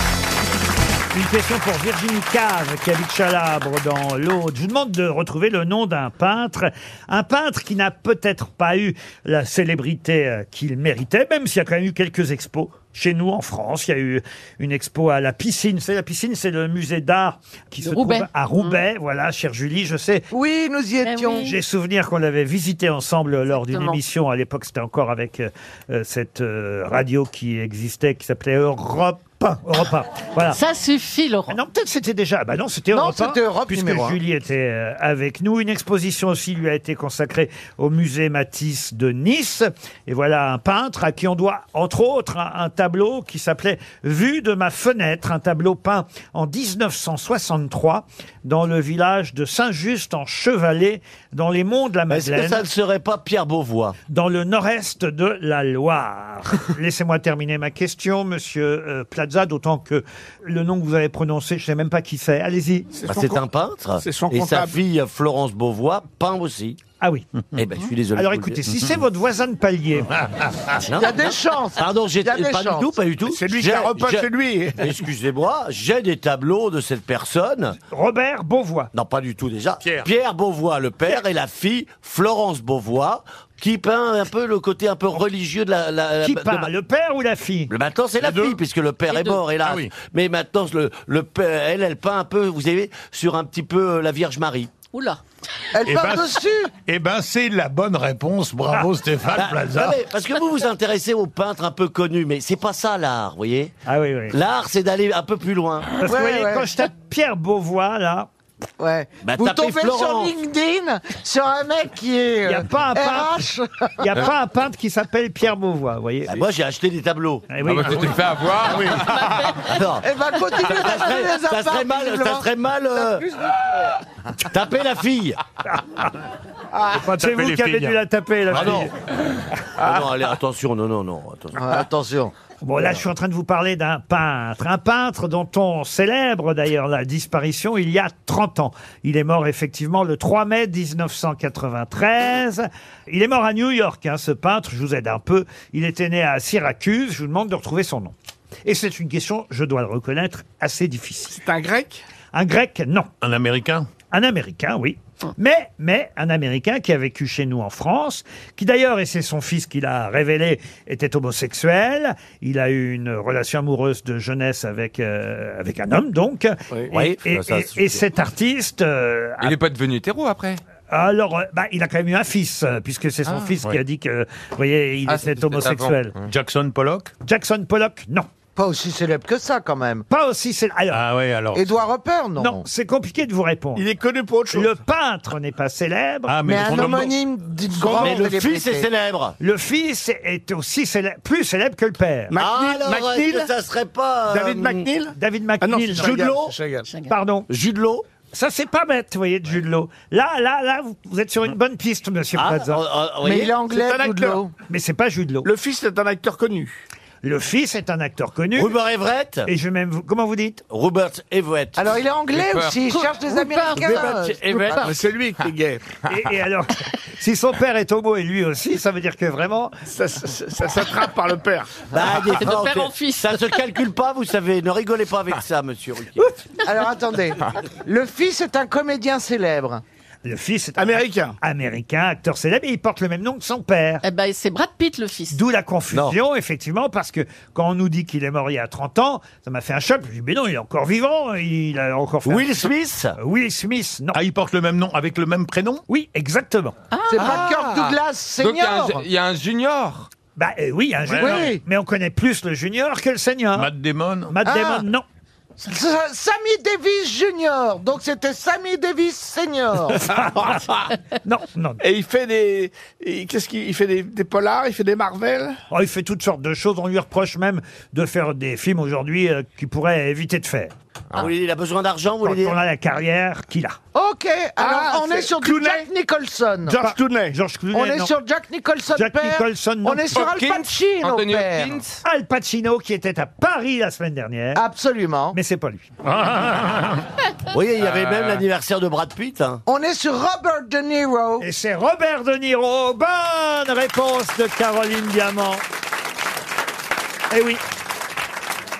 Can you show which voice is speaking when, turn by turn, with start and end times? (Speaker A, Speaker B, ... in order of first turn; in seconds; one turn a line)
Speaker A: 1.1-20.3
Speaker B: 17.8-18.8
Speaker C: 20.3-21.5
Speaker B: 21.0-21.5
Speaker A: 21.4-30.6
Speaker B: 23.6-24.0
Speaker B: 30.5-31.6
Speaker A: 31.5-52.6
Speaker C: 32.9-34.2
Speaker D: 52.1-54.0
Speaker A: 54.1-62.9
Speaker E: 62.9-63.4
Speaker D: 63.0-66.8
Speaker E: 64.0-64.8
Speaker A: 67.0-67.3
Speaker D: 67.5-68.6
Speaker A: 68.1-70.1
Speaker D: 70.8-77.8
Speaker C: 70.9-72.9
Speaker E: 73.3-74.9
Speaker A: 77.9-78.9
Speaker D: 78.9-86.7
Speaker F: 79.8-80.1
Speaker A: 86.2-87.7
Speaker D: 87.7-94.7
Speaker F: 88.2-88.6
Speaker B: 89.1-89.5
Speaker F: 89.6-89.9
Speaker B: 94.9-95.2
Speaker C: 95.7-96.7
Speaker F: 95.8-100.0
Speaker D: 99.3-103.7
Speaker A: 103.8-104.3
Speaker D: 104.3-105.9
Speaker A: 106.0-108.3
Speaker C: 106.0-106.7
Speaker C: 108.8-113.9
Speaker D: 109.2-110.3
Speaker A: 112.5-116.4
Speaker D: 116.3-117.5
Speaker A: 117.5-118.2
Speaker G: 117.6-119.5
Speaker D: 119.6-123.3
Speaker C: 120.0-122.5
Speaker D: 124.4-125.4
Speaker A: 125.7-126.1
Speaker F: 126.9-128.0
Speaker A: 126.9-128.9
Speaker D: 128.5-128.9
Speaker D: 129.8-131.9
Speaker C: 131.6-132.3
Speaker A: 132.6-148.1
Speaker A: 148.6-151.4
Speaker E: 151.3-152.0
Speaker A: 152.3-153.1
Speaker F: 153.2-153.9
Speaker A: 154.1-169.6
Speaker D: 166.9-168.0
Speaker G: 169.4-170.6
Speaker A: 170.9-176.1
Speaker G: 173.2-173.5
Speaker G: 175.1-176.2
Speaker F: 176.2-177.1
Speaker A: 177.2-178.3
Speaker C: 178.6-180.0
Speaker A: 180.1-181.0
Speaker F: 180.9-181.7
Speaker C: 181.5-182.7
Speaker A: 182.4-183.8
Speaker E: 183.7-184.8
Speaker A: 184.5-187.1
Speaker F: 186.3-187.2
Speaker C: 186.4-188.9
Speaker D: 187.8-189.4
Speaker A: 189.4-192.3
Speaker E: 192.3-193.5
Speaker D: 192.4-194.9
Speaker E: 194.3-196.9
Speaker A: 195.1-196.3
Speaker D: 196.0-196.6
Speaker A: 197.1-197.5
Speaker D: 197.5-198.0
Speaker A: 198.3-202.8
Speaker D: 202.3-203.6
Speaker C: 203.2-204.5
Speaker E: 203.6-204.4
Speaker A: 204.7-205.5
Speaker E: 205.4-206.8
Speaker A: 207.2-208.7
Speaker D: 208.5-209.5
Speaker A: 209.4-210.6
Speaker D: 210.7-212.0
Speaker C: 211.8-214.9
Speaker G: 212.3-212.8
Speaker B: 212.9-214.9
Speaker E: 213.8-215.8
Speaker A: 216.1-219.7
Speaker E: 219.9-221.9
Speaker D: 221.9-226.3
Speaker B: 222.1-223.6
Speaker C: 226.6-229.8
Speaker A: 230.2-234.0
Speaker E: 230.8-231.4
Speaker B: 234.0-235.4
Speaker A: 235.3-242.5
Speaker D: 235.9-236.2
Speaker D: 242.2-243.2
Speaker A: 243.2-244.2
Speaker F: 244.1-245.8
Speaker A: 245.9-246.8
Speaker B: 246.9-247.2
Speaker C: 247.1-249.0
Speaker G: 247.1-250.1
Speaker A: 250.3-253.7
Speaker C: 251.2-251.6
Speaker F: 253.5-254.4
Speaker A: 254.3-255.0
Speaker C: 254.5-254.8
Speaker C: 255.6-260.1
Speaker A: 260.1-260.6
Speaker E: 260.2-260.9
Speaker A: 261.2-261.8
Speaker E: 261.8-265.6
Speaker A: 265.7-270.7
Speaker D: 271.1-272.6
Speaker A: 272.2-273.8
Speaker C: 273.9-276.8
Speaker E: 274.6-275.9
Speaker A: 276.7-278.1
Speaker E: 276.8-277.3
Speaker C: 277.7-281.8
Speaker A: 278.9-280.2
Speaker G: 280.1-282.0
Speaker A: 282.0-284.6
Speaker C: 284.5-285.4
Speaker A: 285.3-285.9
Speaker F: 286.1-287.0
Speaker D: 287.5-289.6
Speaker G: 287.9-288.4
Speaker C: 289.6-291.4
Speaker A: 291.4-295.6
Speaker A: 297.3-297.6